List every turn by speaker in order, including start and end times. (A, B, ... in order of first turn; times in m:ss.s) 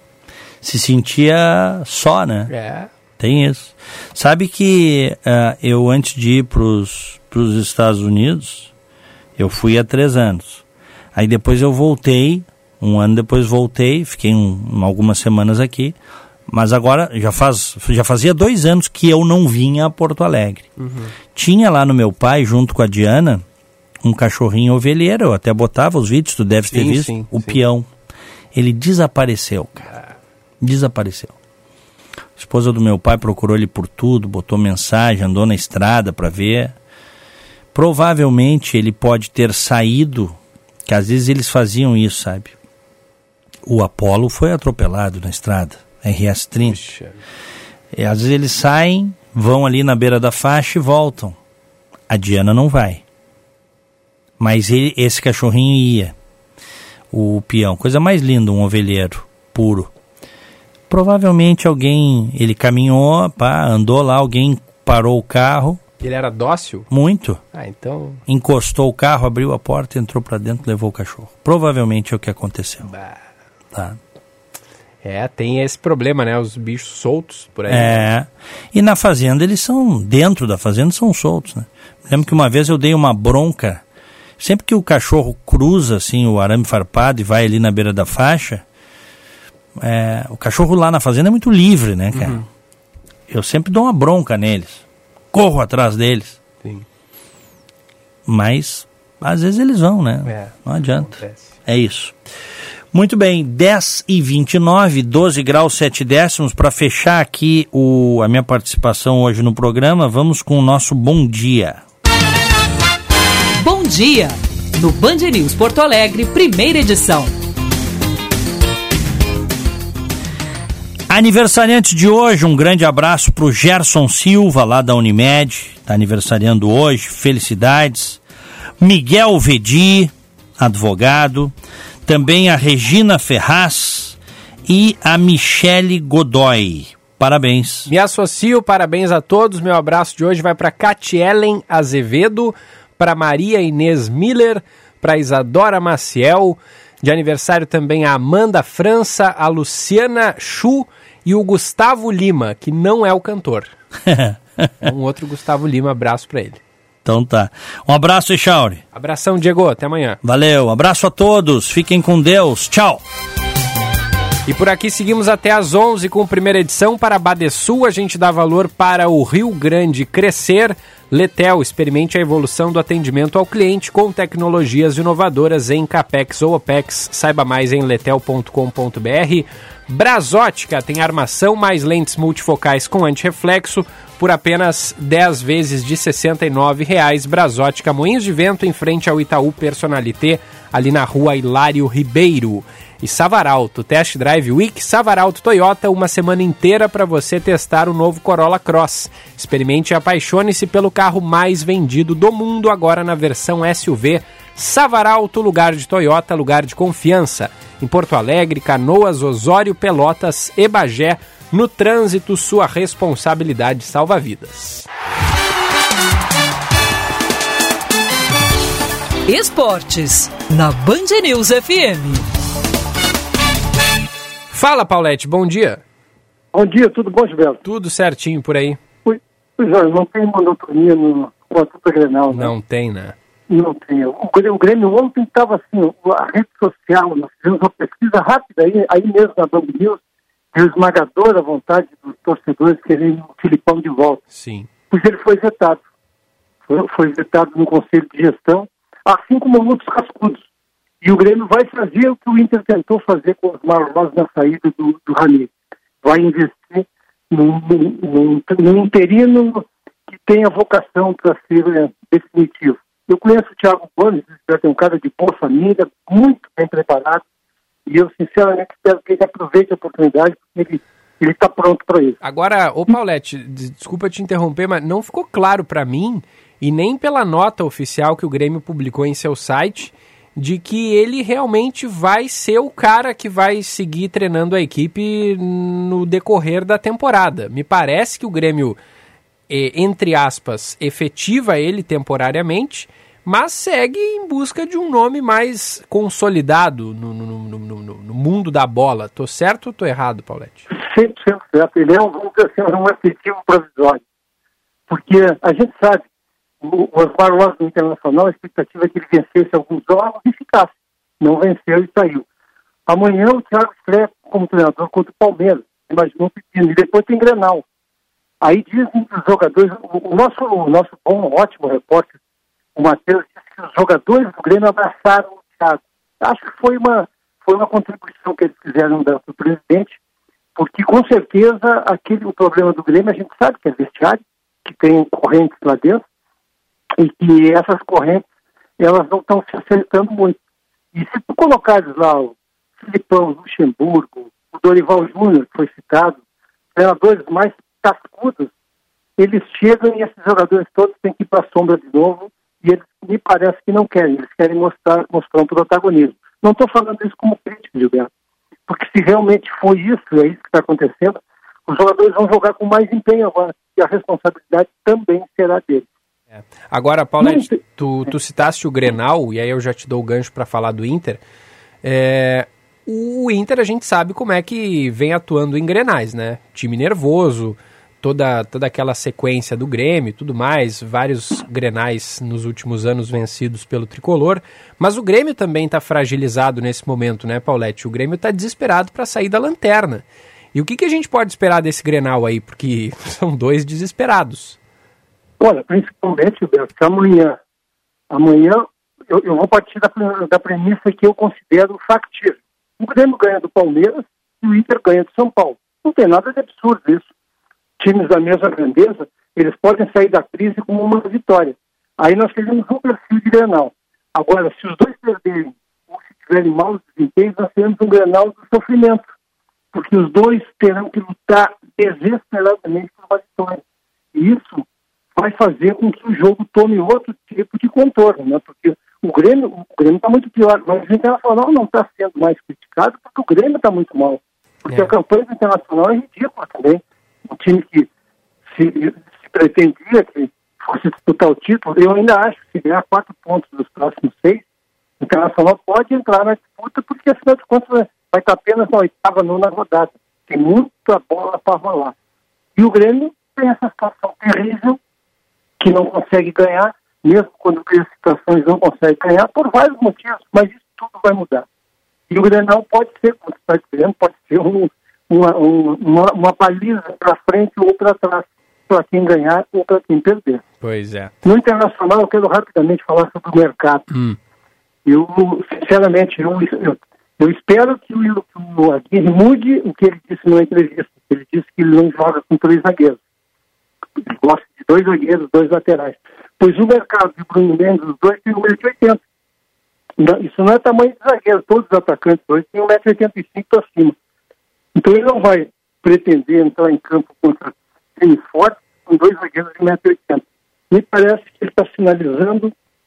0:00.6-0:02.5 A
0:02.5-0:02.9 B
0:03.2-0:08.7 A
0:09.4-0:10.6 A
0:11.1-0:16.0 A
0:16.5-0:20.7 A
0:20.8-0:21.1 B
0:21.3-0:23.4 A
0:24.0-0:27.9 A
0:26.7-0:27.6 B
0:28.5-0:29.9 A
0:30.6-0:31.3 A
0:32.4-0:36.8 A
0:37.7-0:42.5 A
0:43.6-0:46.8 A
0:46.6-0:47.2 B
0:47.9-0:51.4 A
0:52.1-0:53.0 A
0:54.4-0:56.1 A
0:57.1-0:59.9 A
1:00.9-1:05.8 A
1:06.0-1:06.9 B
1:06.9-1:07.4 A
1:07.5-1:08.2 B
1:08.3-1:12.9 A
1:12.8-1:13.2 B
1:13.7-1:14.0 A
1:15.0-1:18.0 B
1:17.7-1:23.8 A
1:24.4-1:28.6 A
1:29.8-1:32.4 A
1:32.1-1:32.4 B
1:33.3-1:36.4 A
1:38.2-1:42.1 A
1:40.2-1:41.5 B
1:42.9-1:51.8 A
1:53.6-1:57.3 C
2:01.1-2:08.2 A
2:08.8-2:11.5 A
2:12.0-2:17.9 A
2:17.9-2:33.7 B
2:34.0-2:34.7 A
2:34.8-2:36.6 B
2:37.0-2:38.8 A
2:38.9-2:40.2 B
2:40.2-2:43.0 A
2:44.5-3:34.8 B
3:39.3-3:42.2 C
3:44.5-3:45.8 B
3:46.5-3:47.6 D
3:47.6-3:48.8 B
3:49.0-3:52.5 D
3:52.3-3:53.1 B
3:53.5-4:00.0 D
4:00.5-4:04.2 D
4:04.3-4:04.7 B
4:04.9-4:05.8 D
4:06.7-4:10.4 D
4:11.0-4:15.5 D
4:16.0-4:27.2 D
4:27.9-4:32.2 D
4:32.2-4:48.8 B
4:49.5-5:00.6 B
5:00.8-5:04.0 D
5:04.9-5:06.0 D
5:06.6-5:10.7 D
5:11.2-5:12.2 D
5:12.9-5:17.6 D
5:18.4-5:22.1 D
5:22.8-5:29.9 D
5:30.6-5:36.0 D
5:37.0-5:38.2 D
5:38.8-5:40.4 D
5:40.9-5:46.2 D
5:46.7-5:48.5 D
5:49.2-5:58.1 D
5:58.7-6:05.8 D
6:06.3-6:11.2 B
6:07.2-6:07.5 D
6:11.8-6:34.6 B
6:35.4-6:37.4 D
6:38.1-6:47.0 D
6:47.8-6:59.0 D
6:59.7-7:03.6 D
7:04.1-7:04.6 D
7:05.2-7:17.9 D
7:14.7-7:14.9 B
7:18.5-7:24.4 D
7:25.0-7:31.9 D
7:32.6-7:34.8 D
7:35.6-7:41.4 D
7:42.1-7:50.4 D
7:50.6-7:51.1 B
7:51.2-7:53.8 D
7:53.9-7:54.2 B
7:54.9-8:03.0 D
8:04.0-8:09.0 D
8:10.0-8:14.0 D
8:14.8-8:22.5 D